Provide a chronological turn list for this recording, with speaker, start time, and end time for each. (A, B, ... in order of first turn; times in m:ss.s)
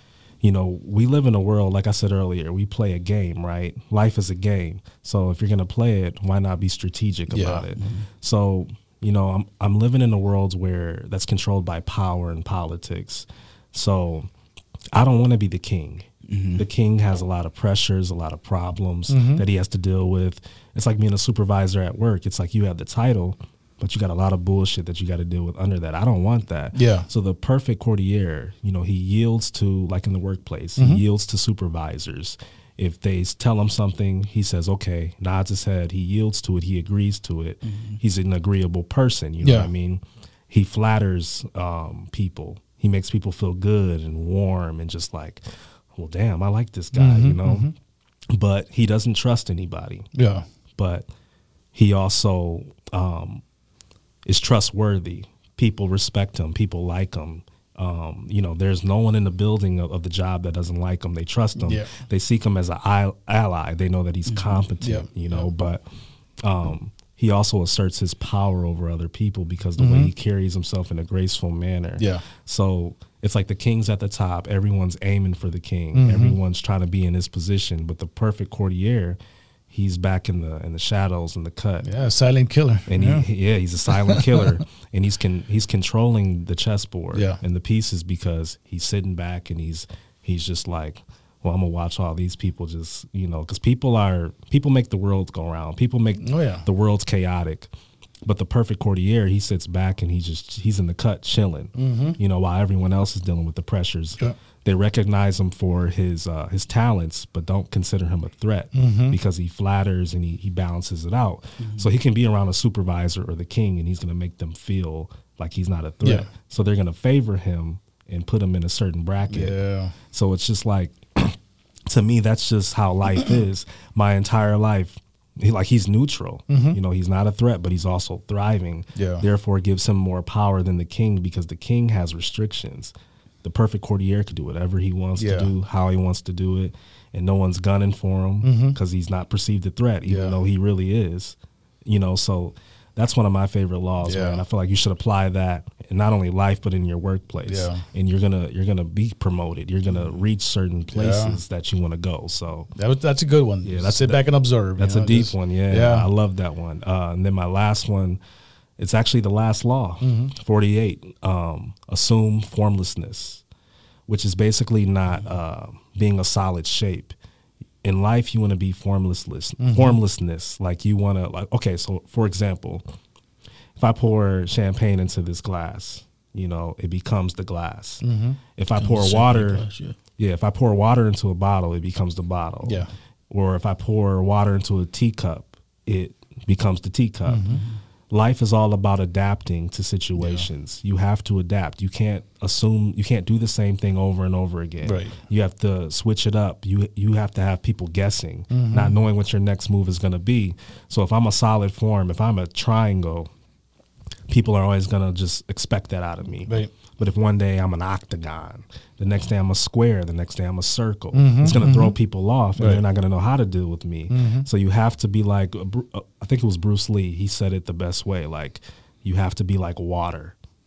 0:00.4-0:14.3 A
0:07.3-0:07.6 B
0:07.8-0:08.0 C
0:14.9-0:45.4 A
0:16.3-0:16.6 C
0:19.1-0:19.4 B
0:26.7-0:27.0 B
0:30.8-0:31.0 B
0:37.6-0:38.0 C
0:39.4-0:39.7 B
0:45.9-0:47.7 A
0:46.9-0:47.7 B
0:48.3-0:50.0 A
0:50.1-0:50.4 B
0:50.8-0:51.1 A
0:51.7-0:53.4 A
0:54.2-1:05.8 A
1:01.6-1:01.9 B
1:04.3-1:04.6 C
1:04.8-1:05.4 B
1:06.4-1:19.2 A
1:09.8-1:10.1 B
1:12.0-1:12.2 B
1:15.9-1:16.4 B
1:19.7-1:21.9 A
1:21.8-1:23.2 B
1:22.9-1:37.7 A
1:23.9-1:24.5 B
1:27.1-1:27.4 B
1:36.2-1:36.6 B
1:38.2-1:59.5 A
1:41.8-1:42.2 B
1:48.7-1:49.2 B
1:51.6-1:51.9 C
1:56.0-1:56.3 B
1:59.3-1:59.9 B
2:00.1-2:12.9 A
2:06.5-2:06.8 B
2:08.9-2:09.2 B
2:13.4-2:32.7 A
2:15.2-2:15.5 B
2:18.4-2:18.8 B
2:20.1-2:20.4 B
2:24.0-2:24.4 B
2:27.4-2:27.8 B
2:30.9-2:31.4 B
2:32.8-2:36.1 B
2:33.6-2:34.2 A
2:34.8-2:38.2 A
2:38.8-2:43.4 A
2:40.0-2:40.3 B
2:44.1-2:47.1 A
2:47.8-2:52.8 A
2:49.6-2:50.0 B
2:53.8-2:58.0 A
2:58.0-2:58.4 B
2:58.6-2:59.6 A
2:58.8-3:00.0 C
3:00.2-3:07.6 A
3:07.3-3:07.6 B
3:08.1-3:23.3 A
3:10.2-3:10.4 B
3:14.8-3:15.1 B
3:18.5-3:19.0 B
3:24.3-3:40.3 A
3:26.5-3:26.7 B
3:31.1-3:31.9 B
3:32.6-3:32.8 B
3:34.1-3:34.5 B